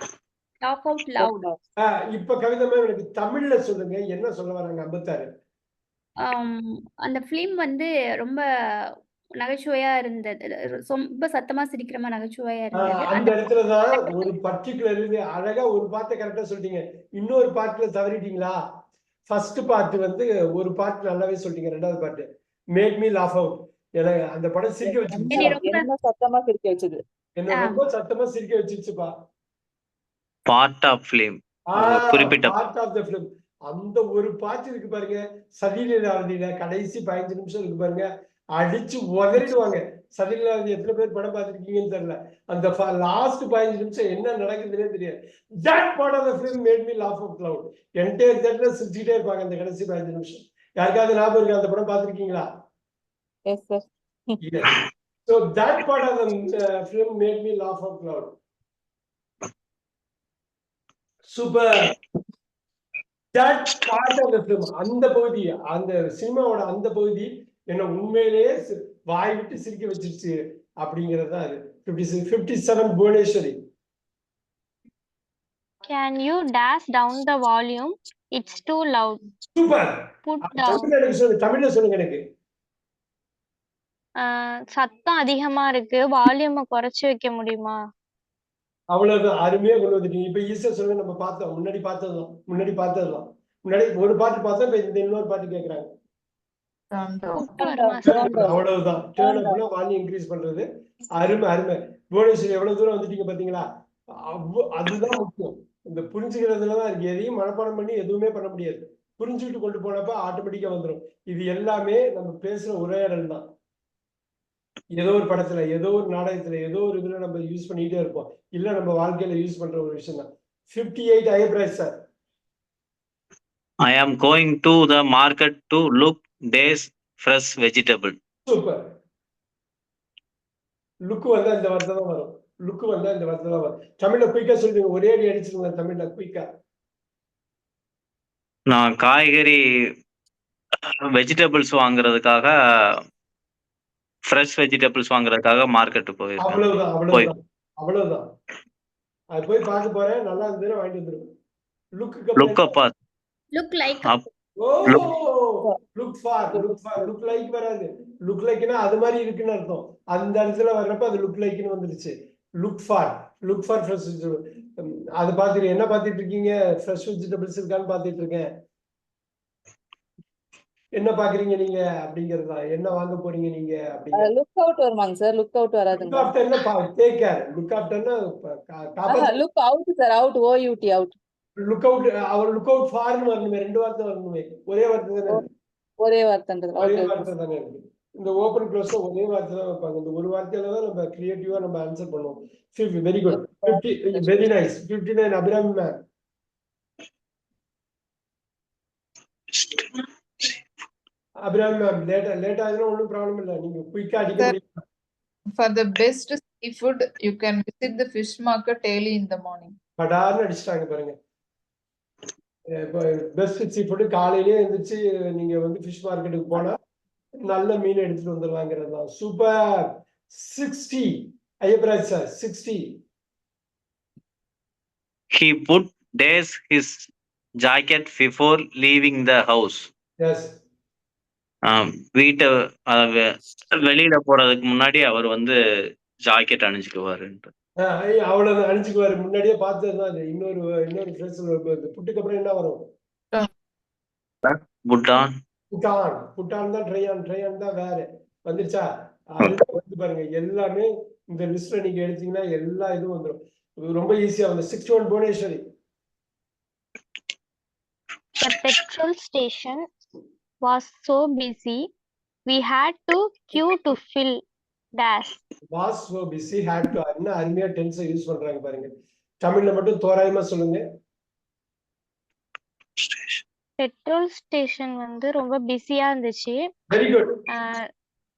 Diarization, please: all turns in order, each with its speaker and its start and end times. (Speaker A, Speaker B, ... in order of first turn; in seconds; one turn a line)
Speaker A: 0.6-1.4
Speaker B: 1.2-1.6
Speaker C: 1.9-5.3
Speaker A: 6.2-8.4
Speaker A: 9.4-14.3
Speaker C: 12.8-18.6
Speaker C: 19.3-25.6
Speaker B: 24.8-27.0
Speaker A: 25.3-25.9
Speaker C: 27.4-29.1
Speaker A: 27.5-27.8
Speaker D: 30.5-32.5
Speaker C: 31.7-52.5
Speaker B: 53.5-54.4
Speaker C: 54.4-58.3
Speaker C: 61.3-61.9
Speaker C: 63.3-73.5
Speaker E: 75.8-79.2
Speaker C: 79.6-82.2
Speaker E: 80.2-80.9
Speaker E: 84.2-87.8
Speaker C: 88.9-95.9
Speaker F: 96.9-97.7
Speaker E: 97.3-98.4
Speaker B: 97.7-98.6
Speaker C: 98.0-103.7
Speaker B: 99.2-99.6
Speaker C: 104.3-113.4
Speaker C: 114.9-122.0
Speaker D: 123.8-128.2
Speaker C: 128.5-128.8
Speaker C: 131.1-136.4
Speaker D: 138.7-139.6
Speaker D: 141.1-143.0
Speaker D: 144.2-147.3
Speaker C: 146.4-148.3
Speaker C: 149.3-151.3
Speaker C: 152.0-152.8
Speaker D: 152.3-152.9
Speaker A: 153.5-154.2
Speaker C: 154.6-168.5
Speaker B: 156.5-156.8
Speaker C: 170.9-174.3
Speaker B: 174.1-176.3
Speaker C: 175.9-179.3
Speaker B: 179.1-181.2
Speaker C: 181.6-185.4
Speaker B: 186.0-187.3
Speaker C: 186.8-196.0
Speaker B: 193.3-194.5
Speaker D: 199.5-200.6
Speaker C: 201.4-204.6
Speaker F: 205.5-209.8
Speaker C: 210.0-211.1
Speaker C: 212.8-216.8
Speaker C: 217.5-223.0
Speaker D: 225.3-227.1
Speaker D: 227.6-229.9
Speaker C: 230.2-230.5
Speaker D: 231.6-233.2
Speaker D: 233.8-235.6
Speaker D: 236.2-237.5
Speaker C: 237.8-242.8
Speaker D: 244.4-245.3
Speaker C: 245.7-255.6
Speaker E: 258.4-259.8
Speaker E: 260.6-261.8
Speaker E: 262.4-264.4
Speaker E: 264.9-265.4
Speaker C: 265.7-268.9
Speaker C: 269.4-270.8
Speaker D: 273.0-273.4
Speaker E: 273.8-276.6
Speaker C: 276.9-277.2